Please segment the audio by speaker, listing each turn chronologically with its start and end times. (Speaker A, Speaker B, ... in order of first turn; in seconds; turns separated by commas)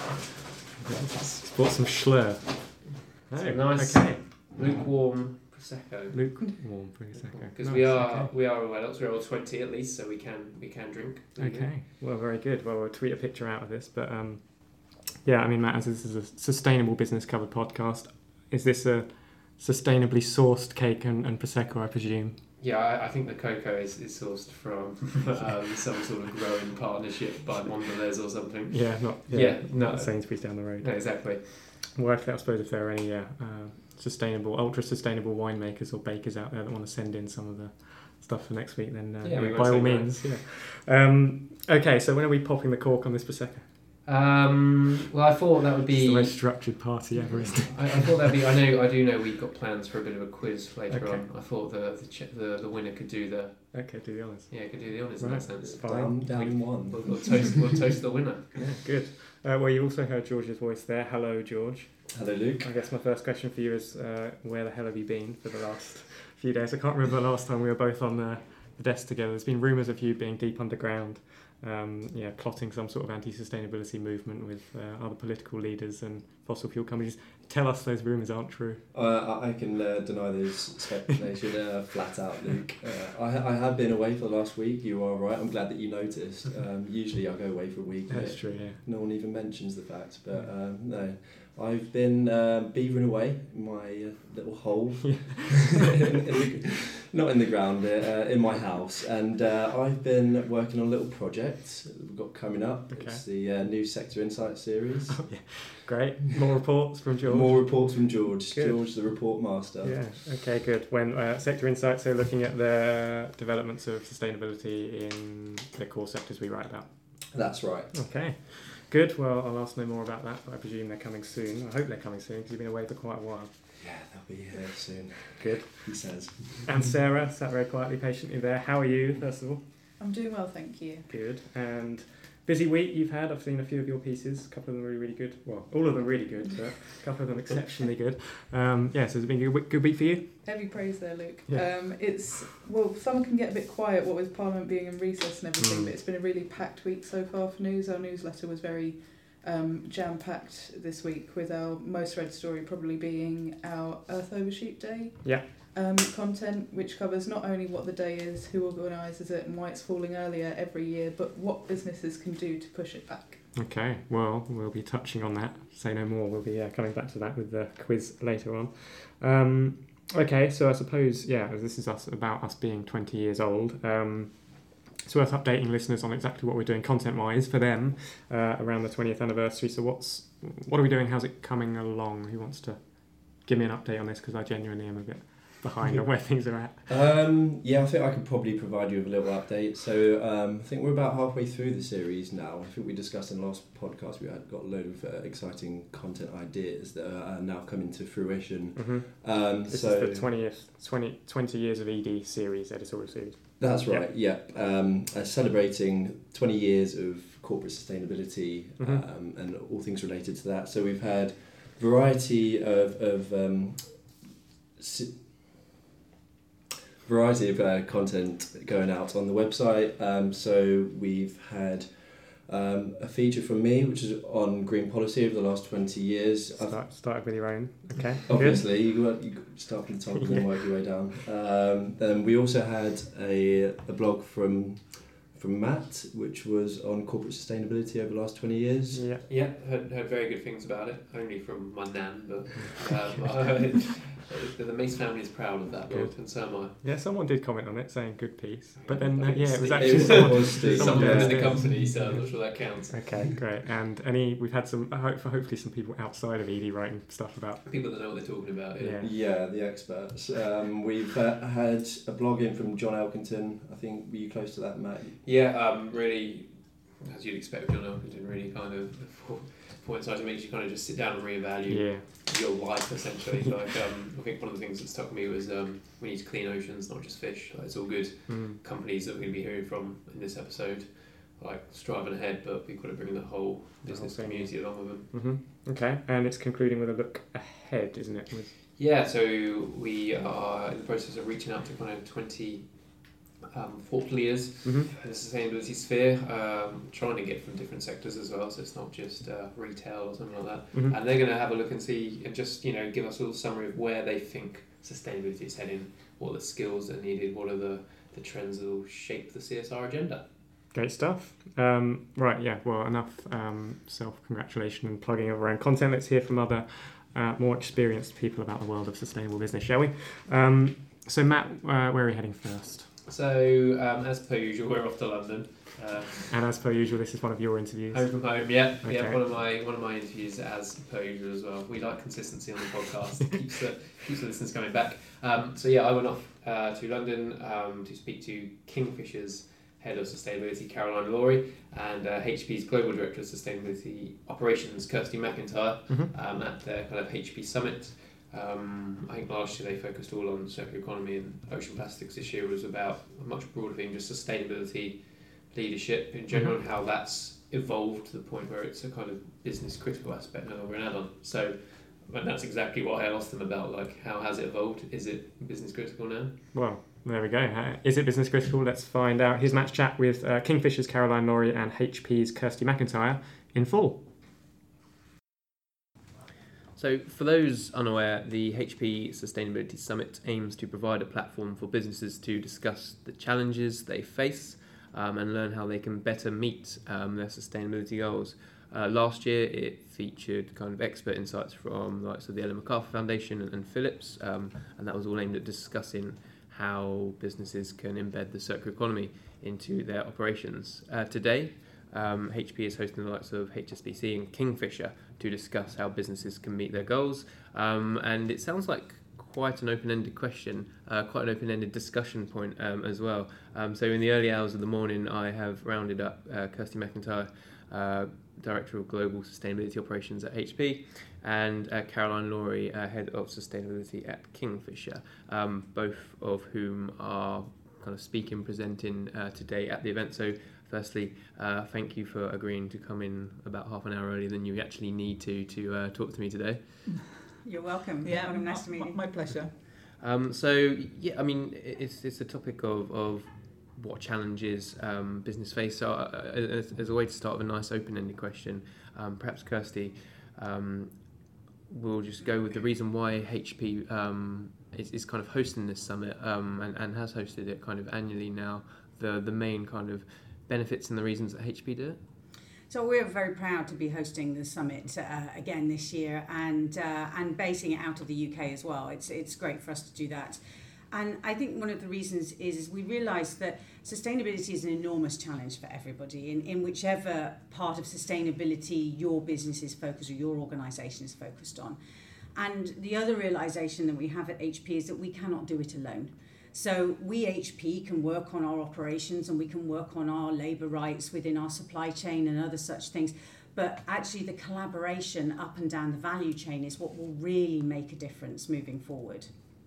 Speaker A: 0.8-4.3, Speaker B: 2.9-11.8, Speaker A: 6.1-8.3, Speaker C: 6.4-6.8, Speaker A: 11.4-22.4, Speaker B: 22.6-31.8, Speaker A: 28.7-43.7, Speaker B: 39.2-40.4, Speaker B: 44.0-46.9, Speaker A: 45.9-48.4, Speaker B: 47.7-58.5, Speaker A: 50.9-51.3, Speaker A: 53.7-56.7, Speaker D: 55.6-57.3, Speaker A: 58.5-78.8, Speaker D: 62.1-62.7, Speaker D: 78.9-105.6, Speaker A: 88.1-88.8, Speaker A: 95.0-96.2, Speaker A: 102.9-103.2, Speaker A: 105.1-109.0, Speaker D: 107.3-110.1, Speaker A: 109.8-117.3, Speaker D: 117.3-118.0, Speaker A: 117.9-123.7, Speaker D: 123.8-126.7, Speaker A: 125.3-129.6, Speaker C: 130.0-131.1, Speaker A: 131.1-140.4, Speaker C: 140.4-163.5, Speaker A: 141.5-142.2, Speaker B: 145.6-145.9, Speaker A: 155.2-155.5, Speaker A: 163.5-186.9, Speaker D: 185.8-200.3, Speaker A: 198.8-204.1, Speaker D: 203.6-214.2, Speaker D: 214.8-215.6, Speaker D: 217.0-226.9, Speaker A: 226.6-228.7, Speaker D: 228.1-239.1, Speaker A: 230.1-230.9, Speaker A: 238.9-239.2, Speaker B: 239.3-246.8, Speaker A: 242.6-243.5, Speaker A: 245.9-252.3, Speaker B: 248.8-253.2, Speaker D: 249.7-251.9, Speaker A: 252.9-257.9, Speaker B: 257.6-259.0, Speaker A: 258.8-259.1, Speaker D: 259.0-265.2, Speaker B: 265.2-285.1, Speaker A: 271.7-272.1, Speaker A: 278.3-278.6, Speaker A: 283.8-288.5, Speaker B: 288.8-310.3, Speaker A: 294.6-294.9, Speaker A: 300.7-301.0, Speaker A: 310.7-322.9, Speaker B: 323.0-326.3, Speaker A: 326.3-329.2, Speaker B: 327.9-366.4, Speaker A: 356.3-356.6, Speaker A: 366.5-374.0, Speaker B: 376.7-436.9, Speaker E: 436.8-437.2, Speaker F: 437.4-439.0, Speaker E: 438.0-439.5, Speaker B: 439.9-462.0, Speaker F: 462.7-470.4, Speaker F: 470.9-481.8, Speaker F: 482.4-499.3